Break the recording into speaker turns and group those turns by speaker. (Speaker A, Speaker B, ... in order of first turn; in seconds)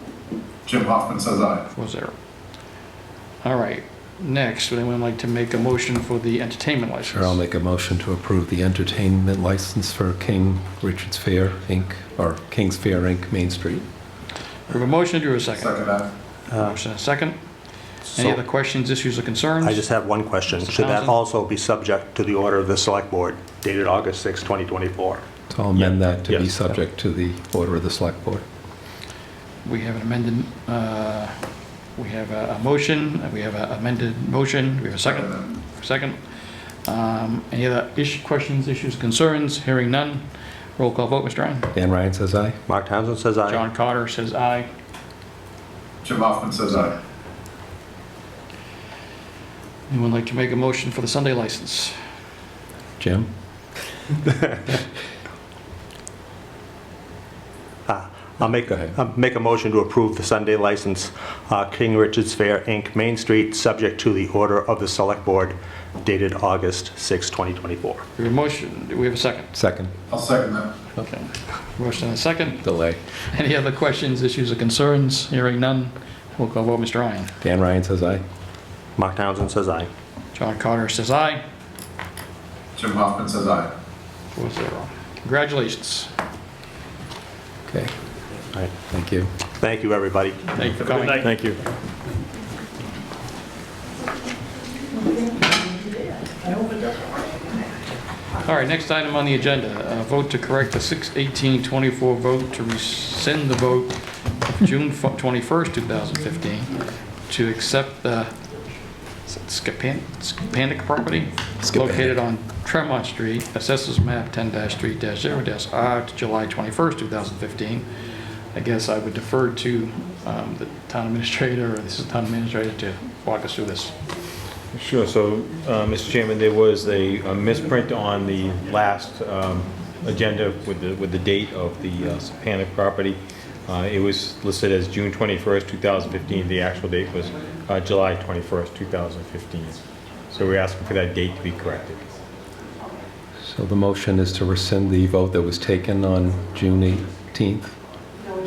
Speaker A: 0.7-1.6, 15.6-16.1, 46.0-46.9, 70.1-70.7, 82.8-83.7
Speaker B: 1.7-2.1, 3.4-7.4, 14.7-15.8, 16.5-17.4, 18.1-19.8, 20.5-21.2, 29.6-31.4, 31.9-36.2, 36.8-41.7, 43.5-44.7, 49.9-51.9, 68.2-69.5, 71.0-72.7, 73.2-77.3, 80.3-81.4, 84.3-86.1, 90.5-91.3, 98.4-108.3, 109.2-117.9, 118.5-123.9
Speaker C: 7.0-13.8, 25.5-28.4, 41.7-42.6, 53.0-53.3, 58.7-58.9, 69.5-69.9, 72.6-73.0, 77.4-78.2, 88.9-89.3, 111.6-112.2, 143.4-147.8
Speaker D: 16.5-16.8, 18.0-18.4, 19.6-25.2, 42.7-43.6, 57.9-68.0, 79.0-79.9, 89.6-91.2
Speaker E: 91.2-91.6, 124.7-142.1